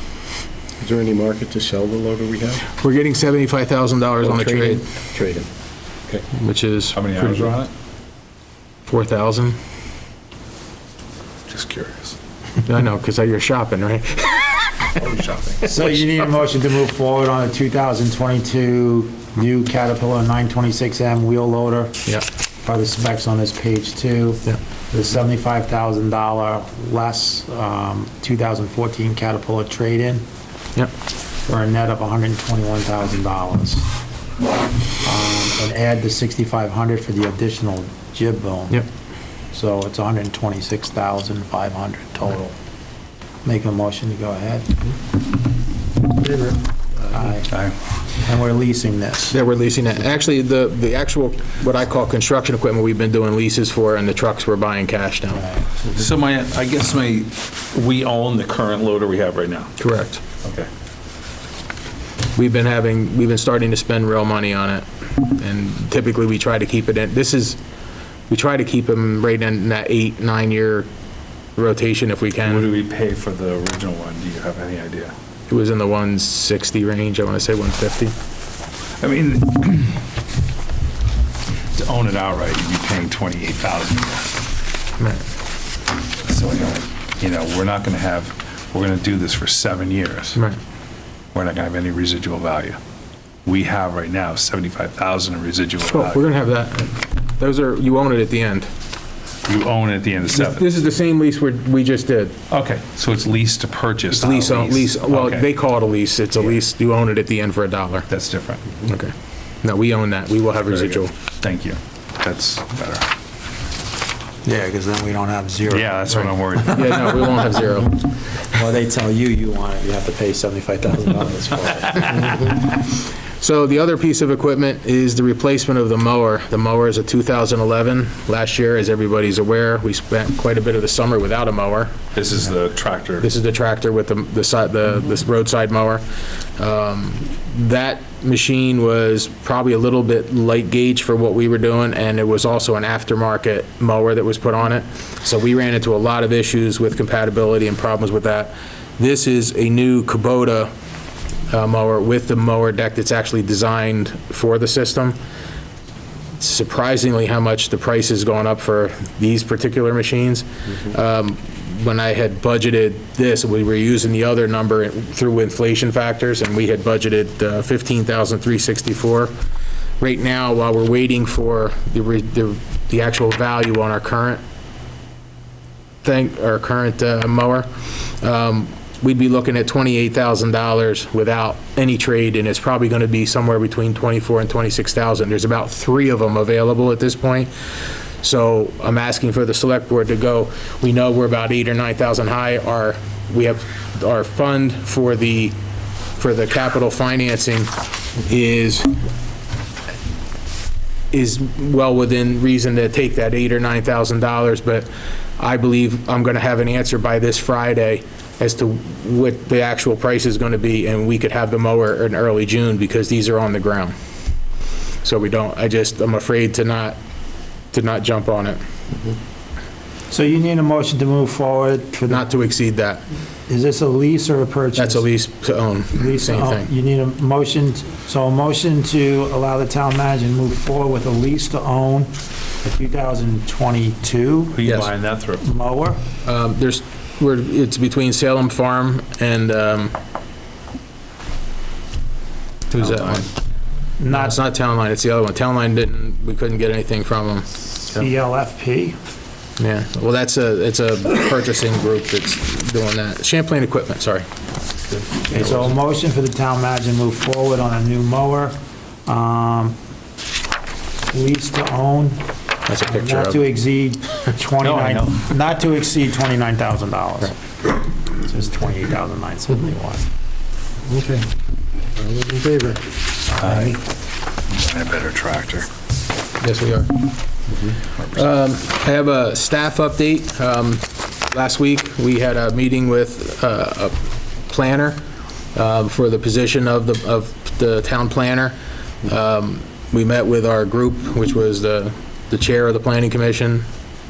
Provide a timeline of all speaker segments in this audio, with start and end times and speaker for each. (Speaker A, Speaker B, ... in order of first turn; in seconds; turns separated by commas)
Speaker A: 0.8-2.6, Speaker B: 2.8-4.8, Speaker A: 4.2-5.5, Speaker B: 6.3-7.5, Speaker C: 6.9-7.7, Speaker B: 8.9-9.6, Speaker C: 11.5-12.2, Speaker B: 12.6-15.0, Speaker C: 15.1-15.6, Speaker D: 15.6-21.9, Speaker D: 22.6-30.2, Speaker D: 31.5-33.9, Speaker D: 35.0-38.8, Speaker D: 39.5-42.5, Speaker D: 43.5-44.8, Speaker D: 46.2-47.5, Speaker C: 47.5-47.7, Speaker D: 48.2-49.4, Speaker B: 49.3-55.4, Speaker D: 55.4-55.6, Speaker C: 55.9-59.8, Speaker B: 59.8-60.2, Speaker C: 60.4-60.7, Speaker B: 62.4-67.6, Speaker B: 68.3-70.9, Speaker B: 71.6-72.7, Speaker C: 72.4-75.1, Speaker B: 75.5-78.1, Speaker C: 79.0-80.0, Speaker C: 81.8-84.3, Speaker C: 86.2-90.4, Speaker C: 91.3-92.8, Speaker C: 93.5-96.2, Speaker B: 95.8-98.7, Speaker C: 99.5-100.7, Speaker B: 100.3-102.4, Speaker C: 102.5-105.5, Speaker B: 104.1-108.1, Speaker C: 108.1-108.7, Speaker B: 108.8-109.1, Speaker B: 109.6-111.1, Speaker C: 110.8-113.1, Speaker D: 114.5-116.3, Speaker C: 115.7-117.4, Speaker B: 116.7-118.0, Speaker D: 118.5-122.6, Speaker B: 122.4-131.9, Speaker C: 132.2-133.3, Speaker B: 133.2-136.0, Speaker B: 136.6-150.7, Speaker B: 151.5-155.2, Speaker B: 156.4-169.3, Speaker B: 170.0-174.4, Speaker B: 176.0-187.5, Speaker B: 188.2-195.6, Speaker B: 196.2-198.9, Speaker B: 201.1-213.9, Speaker B: 215.0-217.0, Speaker B: 217.7-218.6, Speaker D: 220.1-222.3, Speaker B: 222.1-223.0, Speaker D: 223.5-225.0, Speaker B: 224.8-226.7, Speaker D: 225.9-232.1, Speaker D: 232.6-234.9, Speaker C: 234.5-235.4, Speaker D: 235.4-236.0, Speaker B: 236.2-239.9, Speaker B: 242.7-243.3, Speaker C: 242.7-243.3, Speaker D: 244.0-244.4, Speaker B: 244.1-248.0, Speaker D: 247.9-249.0, Speaker B: 249.6-254.3, Speaker D: 255.3-259.8, Speaker D: 261.1-262.2, Speaker B: 262.7-263.4, Speaker D: 262.9-267.4, Speaker C: 264.6-265.2, Speaker D: 268.1-270.1, Speaker C: 270.9-271.3, Speaker B: 272.0-272.8, Speaker C: 273.4-273.8, Speaker D: 273.4-273.8, Speaker C: 274.5-275.7, Speaker B: 276.4-277.1, Speaker B: 278.1-283.9, Speaker B: 284.5-285.0, Speaker B: 285.6-293.7